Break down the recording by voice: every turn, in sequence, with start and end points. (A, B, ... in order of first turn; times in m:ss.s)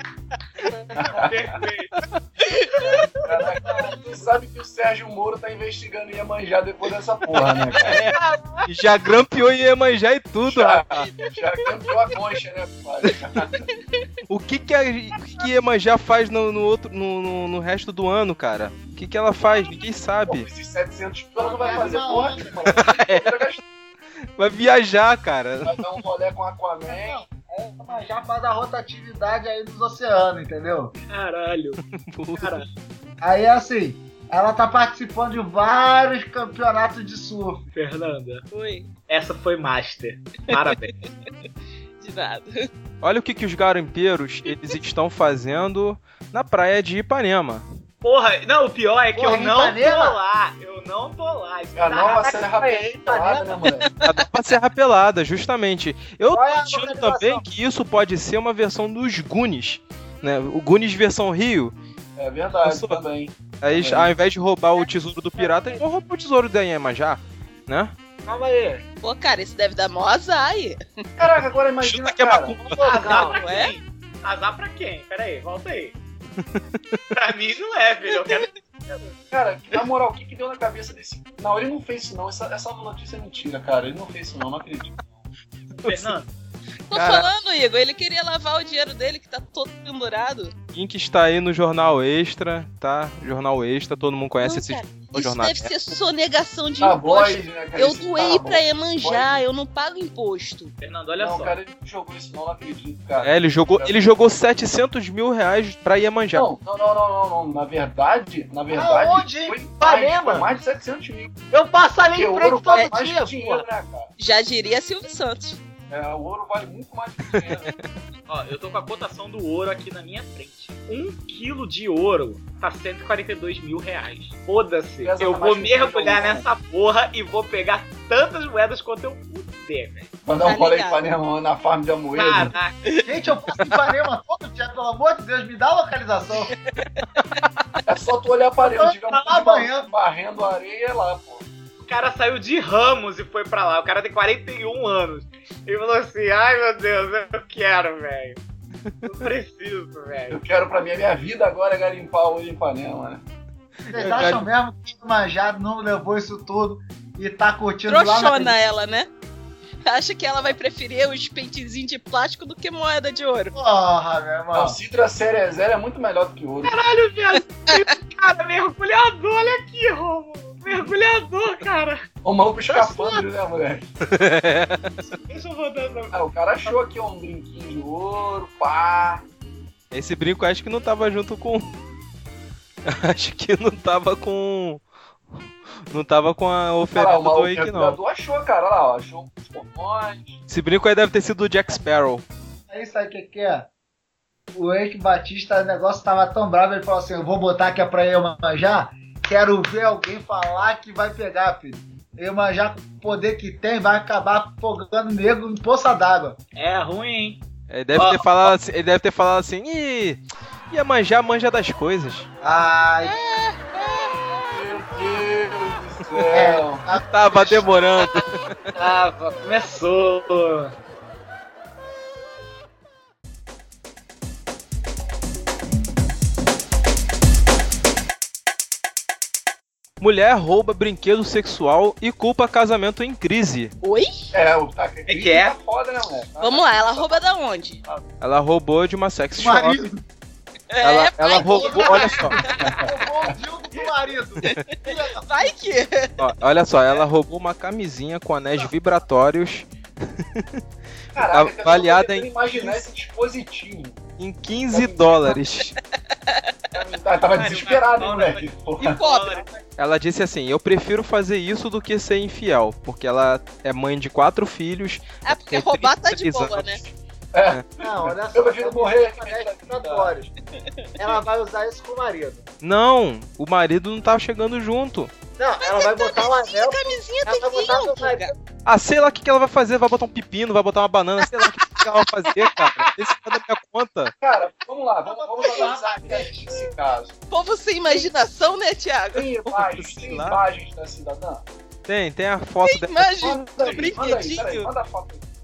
0:01.0-0:01.5 A
0:01.1-0:01.9 B
0:02.4-0:03.0 C
0:02.8-0:03.1 B
0:03.2-0:08.0 A
0:07.8-0:11.1 D
0:07.9-0:08.6 B
0:10.4-0:13.7 A
0:14.3-0:20.5 D
0:20.3-0:23.6 A
0:21.4-0:22.8 E
0:22.7-0:23.4 D
0:24.4-0:25.8 D
0:25.6-0:27.2 A
0:26.9-0:31.0 E
0:31.1-0:31.8 B
0:31.9-0:32.7 D
0:32.4-0:32.7 B
0:33.2-0:37.7 E
0:37.7-0:38.4 B
0:38.5-0:38.9 C
0:39.1-0:40.9 B
0:40.5-0:40.8 C
0:42.0-0:42.7 C
0:43.0-0:47.7 D
0:44.5-0:44.8 C
0:48.0-0:52.3 B
0:49.1-0:50.2 E
0:51.8-0:53.9 A
0:52.0-0:53.7 E
0:54.0-1:01.7 D
0:56.3-0:57.4 E
1:02.2-1:04.1 A
1:02.6-1:03.0 D
1:03.6-1:07.9 D
1:08.2-1:08.8 E
1:09.0-1:11.0 C
1:11.2-1:12.6 A
1:11.8-1:13.0 D
1:12.7-1:13.4 E
1:12.9-1:16.0 B
1:12.9-1:13.8 C
1:16.6-1:17.1 D
1:17.1-1:19.1 B
1:19.3-1:25.1 A
1:25.8-1:26.1 D
1:25.8-1:26.3 B
1:26.9-1:30.5 C
1:26.9-1:27.3 D
1:30.7-1:35.7 D
1:34.4-1:40.7 C
1:36.8-1:39.4 A
1:40.8-1:41.6 B
1:41.2-1:44.0 A
1:43.2-1:46.5 D
1:46.3-1:51.4 A
1:48.7-1:50.5 E
1:51.5-1:53.6 E
1:52.1-1:54.1 A
1:54.2-1:55.6 C
1:55.9-1:57.7 A
1:58.3-2:10.1 B
2:05.0-2:06.5 A
2:10.2-2:12.6 A
2:10.4-2:11.0 C
2:12.2-2:12.8 B
2:12.9-2:13.7 C
2:13.0-2:16.5 E
2:17.9-2:21.5 A
2:18.6-2:19.9 E
2:21.8-2:28.4 B
2:29.0-2:30.4 B
2:30.3-2:33.2 A
2:33.9-2:34.5 D
2:33.9-2:38.6 E
2:37.9-2:39.1 C
2:39.9-2:43.5 C
2:43.5-2:44.8 E
2:44.5-2:46.8 A
2:46.6-2:52.0 B
2:52.2-2:54.0 A
2:52.7-2:53.2 C
2:54.1-2:55.0 D
2:55.2-2:56.7 B
2:56.1-2:59.2 A
2:59.9-3:01.7 D
3:02.9-3:04.8 D
3:05.9-3:08.0 D
3:06.9-3:10.4 A
3:10.5-3:12.2 D
3:12.7-3:13.7 E
3:14.5-3:26.4 E
3:26.6-3:27.4 B
3:27.7-3:32.3 D
3:28.0-3:28.5 B
3:32.4-3:33.2 E
3:33.0-3:34.2 C
3:34.5-3:36.9 A
3:36.1-3:38.7 D
3:36.3-3:37.7 E
3:38.8-3:40.7 B
3:50.0-3:53.8 D
3:53.8-3:54.3 C
3:54.3-3:57.3 A
3:55.1-3:55.6 B
3:56.4-3:57.8 C
3:58.2-3:59.8 D
3:59.4-4:00.0 E
4:00.7-4:02.8 C
4:00.8-4:02.4 D
4:01.3-4:05.6 E
4:02.6-4:03.4 A
4:04.5-4:06.3 C
4:06.2-4:10.5 D
4:11.2-4:14.0 A
4:11.2-4:12.8 D
4:14.2-4:15.8 D
4:14.7-4:15.4 A
4:16.3-4:16.5 C
4:16.7-4:19.0 A
4:17.3-4:19.6 B
4:18.8-4:19.5 C
4:19.8-4:26.9 D
4:25.2-4:26.8 C
4:27.3-4:30.2 A
4:27.8-4:30.3 E
4:31.0-4:32.5 E
4:32.6-4:35.1 D
4:35.4-4:38.4 E
4:35.6-4:38.3 C
4:38.7-4:44.1 D
4:44.2-4:47.2 A
4:45.1-4:46.6 E
4:47.3-4:49.3 C
4:49.1-4:51.4 A
4:49.5-4:50.4 D
4:51.9-4:53.1 D
4:52.6-4:54.7 C
4:53.2-4:55.3 A